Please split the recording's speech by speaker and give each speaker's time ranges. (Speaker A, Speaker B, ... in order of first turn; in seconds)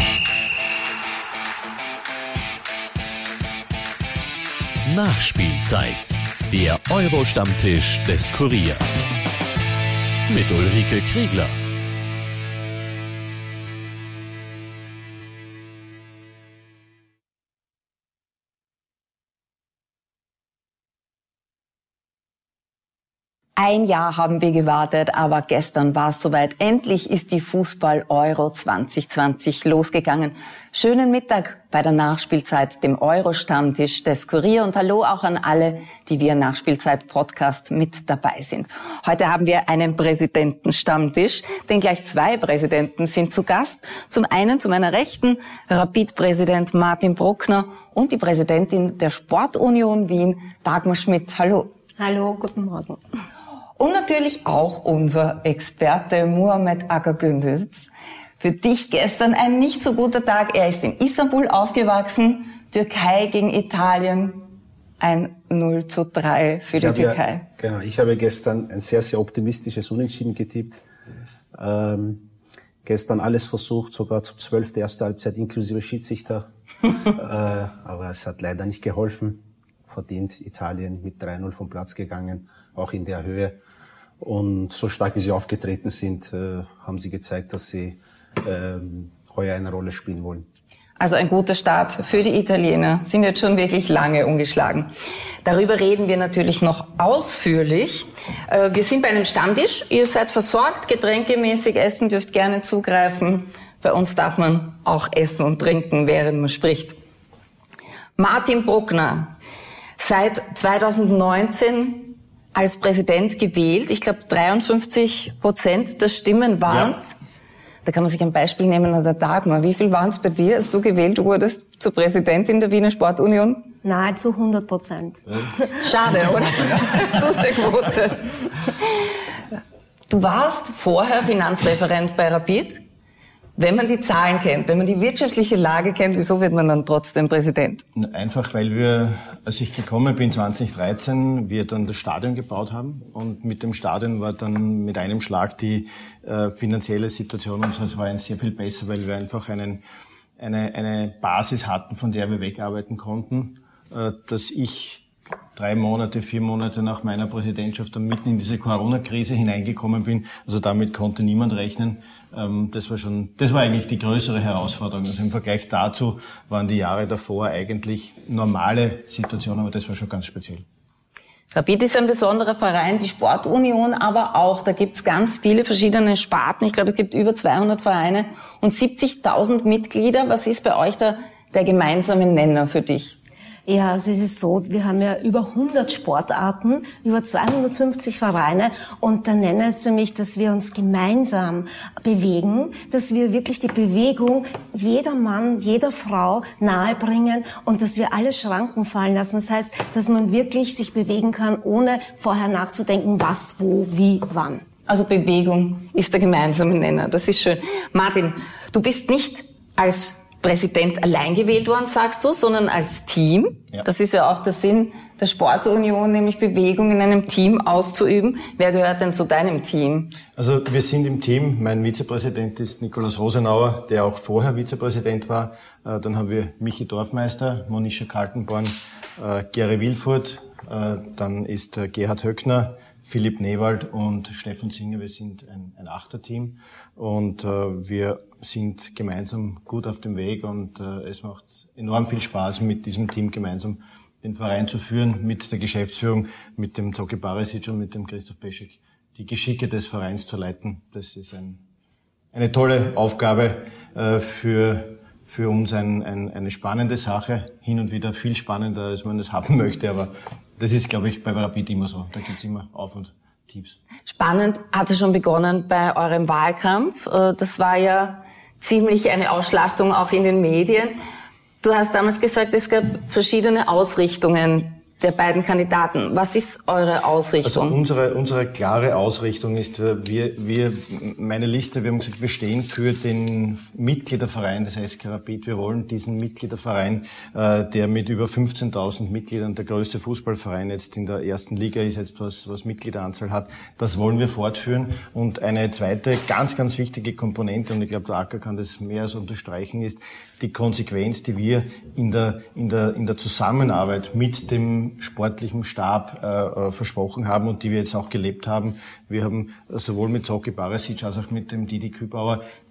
Speaker A: 4.8-8.8, 10.3-11.6
Speaker B: 23.6-51.7, 53.8-57.9, 58.4-64.5, 65.0-67.5, 91.0-94.9, 95.4-107.0, 108.2-109.3, 110.0-117.2, 117.8-123.7, 125.8-128.5, 130.1-132.8, 133.6-137.8, 171.5-183.2, 204.9-220.2, 264.1-271.0, 271.6-277.8
Speaker C: 52.0-53.0, 123.8-125.7, 183.7-204.6
Speaker D: 66.7-70.8, 71.5-72.3, 72.8-83.6, 84.2-90.5
Speaker E: 116.7-117.0, 138.0-149.8, 150.4-170.7, 220.4-251.6, 252.3-263.8, 277.4-312.4